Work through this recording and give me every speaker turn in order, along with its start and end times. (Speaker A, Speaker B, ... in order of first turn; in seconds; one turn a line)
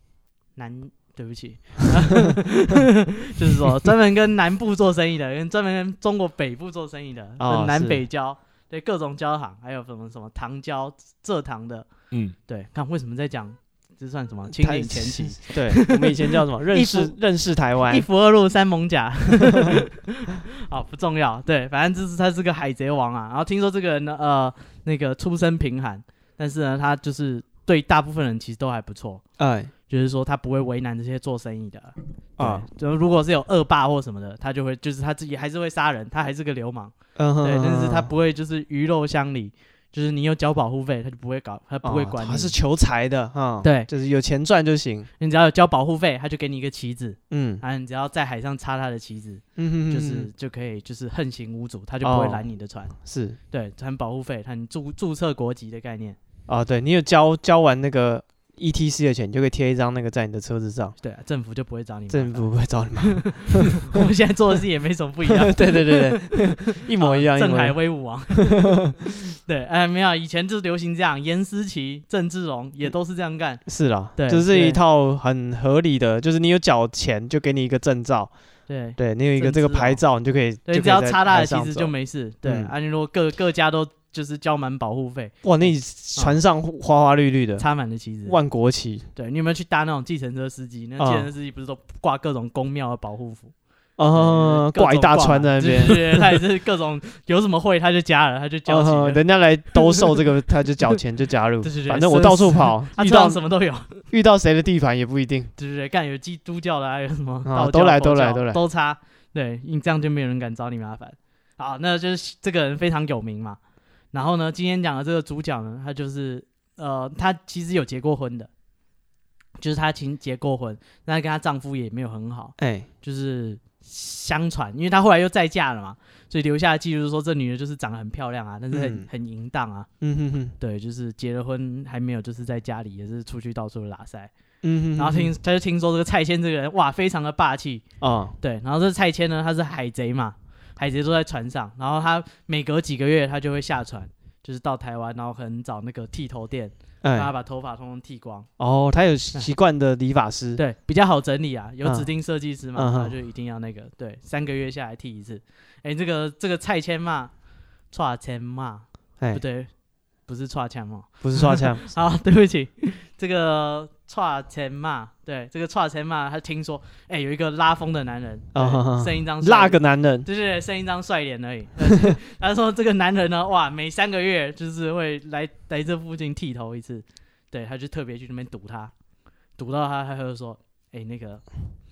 Speaker A: 0.6-11.9
Speaker B: 7.4-8.0
Speaker A: 12.4-17.1
Speaker B: 14.5-18.1
Speaker A: 17.9-29.2
Speaker B: 29.4-29.7
Speaker A: 29.9-42.5
Speaker B: 32.4-32.6
Speaker B: 37.1-38.1
Speaker B: 41.8-45.1
Speaker A: 43.6-43.9
Speaker A: 45.2-52.9
Speaker B: 47.3-47.6
Speaker B: 49.5-50.3
Speaker B: 52.0-52.4
Speaker B: 53.0-53.4
Speaker A: 53.5-56.2
Speaker B: 56.5-61.0
Speaker A: 61.0-73.6
Speaker B: 62.1-63.9
Speaker B: 65.2-67.8
Speaker B: 68.5-68.9
Speaker B: 73.7-78.3
Speaker A: 74.2-74.8
Speaker A: 78.7-80.0
Speaker B: 79.0-81.9
Speaker A: 80.7-86.4
Speaker B: 82.4-82.7
Speaker B: 85.4-87.6
Speaker A: 87.6-88.4
Speaker B: 88.3-89.1
Speaker A: 89.1-93.5
Speaker B: 91.0-91.3
Speaker B: 94.0-96.4
Speaker A: 94.1-99.2
Speaker B: 98.7-103.4
Speaker A: 101.6-104.0
Speaker B: 104.1-105.5
Speaker A: 105.6-113.6
Speaker B: 107.4-108.6
Speaker A: 114.1-118.5
Speaker A: 119.6-129.9
Speaker B: 122.6-122.9
Speaker B: 128.7-129.1
Speaker B: 130.0-130.5
Speaker A: 130.6-134.3
Speaker B: 134.6-135.3
Speaker A: 134.9-137.8
Speaker B: 138.0-138.3
Speaker A: 138.4-148.5
Speaker B: 147.0-147.3
Speaker B: 148.6-150.6
Speaker A: 150.6-157.3
Speaker B: 151.8-152.1
Speaker B: 152.7-153.1
Speaker A: 157.9-159.7
Speaker A: 160.3-178.9
Speaker B: 161.2-161.8
Speaker B: 168.5-170.3
Speaker A: 179.6-181.4